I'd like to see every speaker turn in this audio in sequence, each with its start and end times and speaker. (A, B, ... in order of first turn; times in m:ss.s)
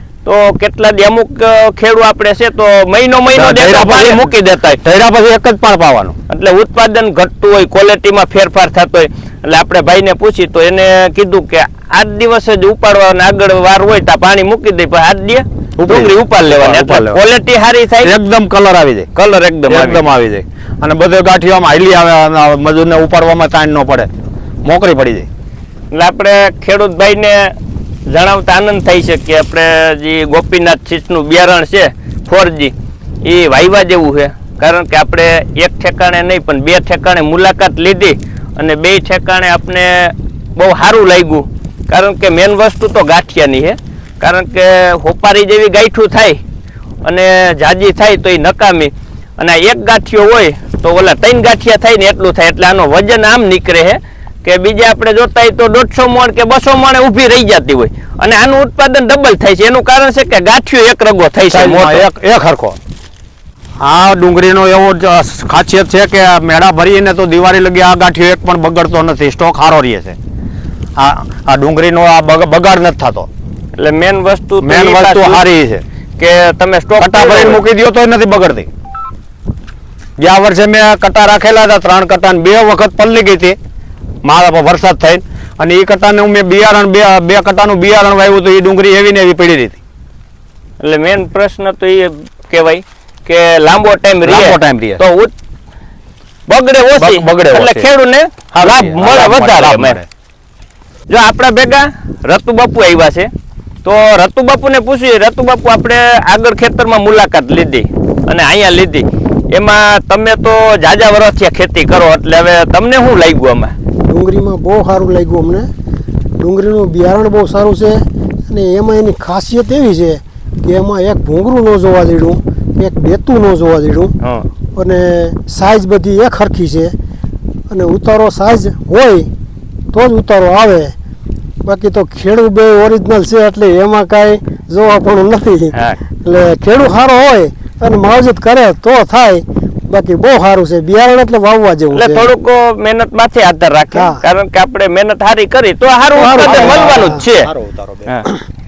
0:00.2-0:04.8 A
0:03.3-0:04.3 B
0:04.8-0:06.2 B
0:06.3-0:18.1 A
0:15.8-0:17.2 B
0:18.0-0:19.1 B
0:19.2-0:20.0 A
0:19.7-0:24.1 B
0:24.6-0:25.3 B
0:25.9-0:27.6 A
0:28.1-0:46.4 A
0:47.0-1:02.1 A
1:01.5-1:02.8 B
1:03.8-1:10.2 B
1:11.0-1:13.3 B
1:13.8-1:15.4 A
1:14.6-1:15.8 B
1:16.2-1:17.6 A
1:17.0-1:18.7 B
1:20.2-1:23.6 B
1:24.2-1:29.8 B
1:30.8-1:35.3 A
1:34.2-1:35.0 B
1:36.5-1:40.0 A
1:37.0-1:37.9 B
1:38.5-1:40.1 B
1:41.1-1:43.3 A
1:43.8-1:53.7 A
1:54.0-1:55.7 C
1:56.4-2:04.1 C
2:04.8-2:06.9 C
2:07.7-2:09.3 C
2:09.9-2:10.9 C
2:11.6-2:22.3 C
2:15.7-2:16.0 A
2:21.9-2:27.5 A
2:23.9-2:24.2 C
2:26.1-2:27.2 C
2:26.4-2:28.3 B